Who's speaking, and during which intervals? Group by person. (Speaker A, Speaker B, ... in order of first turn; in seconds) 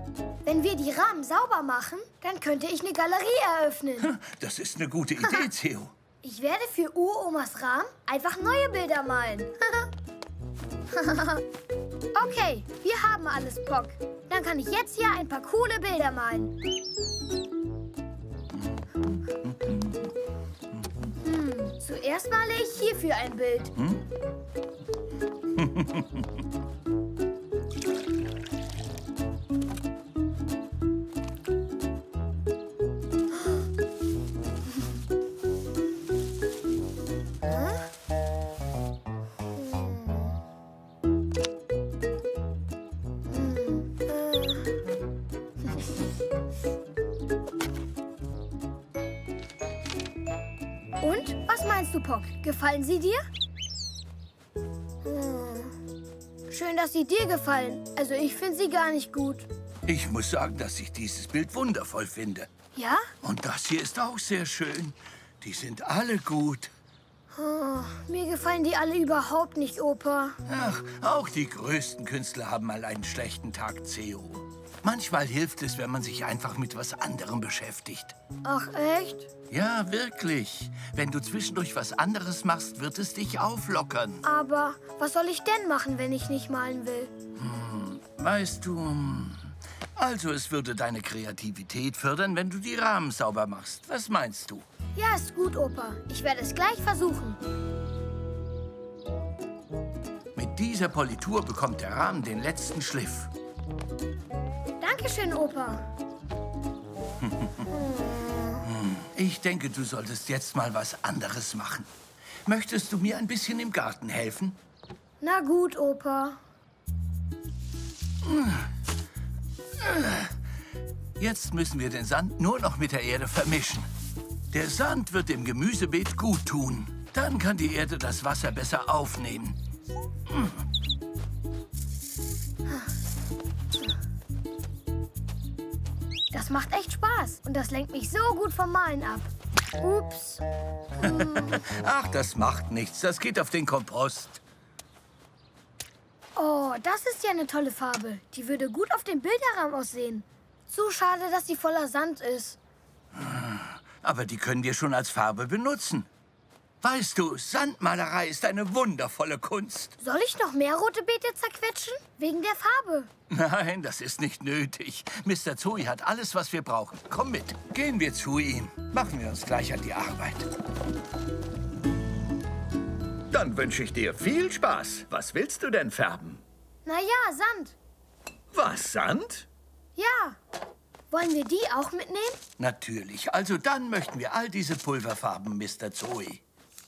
Speaker A: 0.5-4.1, 6.2-9.9, 12.2-16.5, 21.2-23.7, 37.4-37.9, 39.5-40.3, 43.3-44.7, 51.0-53.3, 55.0-55.8, 56.5-59.5, 62.8-63.1, 67.3-70.4, 78.4-79.3, 84.2-87.1, 95.0-97.4, 104.8-105.8, 107.7-108.6, 115.2-116.4, 136.3-139.3, 139.8-140.4, 141.1-141.4, 146.4-152.6, 160.0-163.1, 176.8-177.8, 180.0-180.4, 181.1-182.4
Speaker B: 4.0-5.9, 19.5-19.9, 23.8-24.0, 25.6-26.1, 59.9-62.5, 63.2-66.7, 70.5-78.2, 79.5-84.2, 87.4-94.7, 100.3-103.3, 107.2-107.5, 108.7-111.9, 112.5-114.6, 118.3-118.6, 119.8-120.3, 121.2-123.9, 124.5-129.6, 141.1-144.4, 153.2-156.1, 156.8-159.9, 163.3-170.5, 182.6-186.4
Speaker C: 173.3-176.4, 178.5-179.5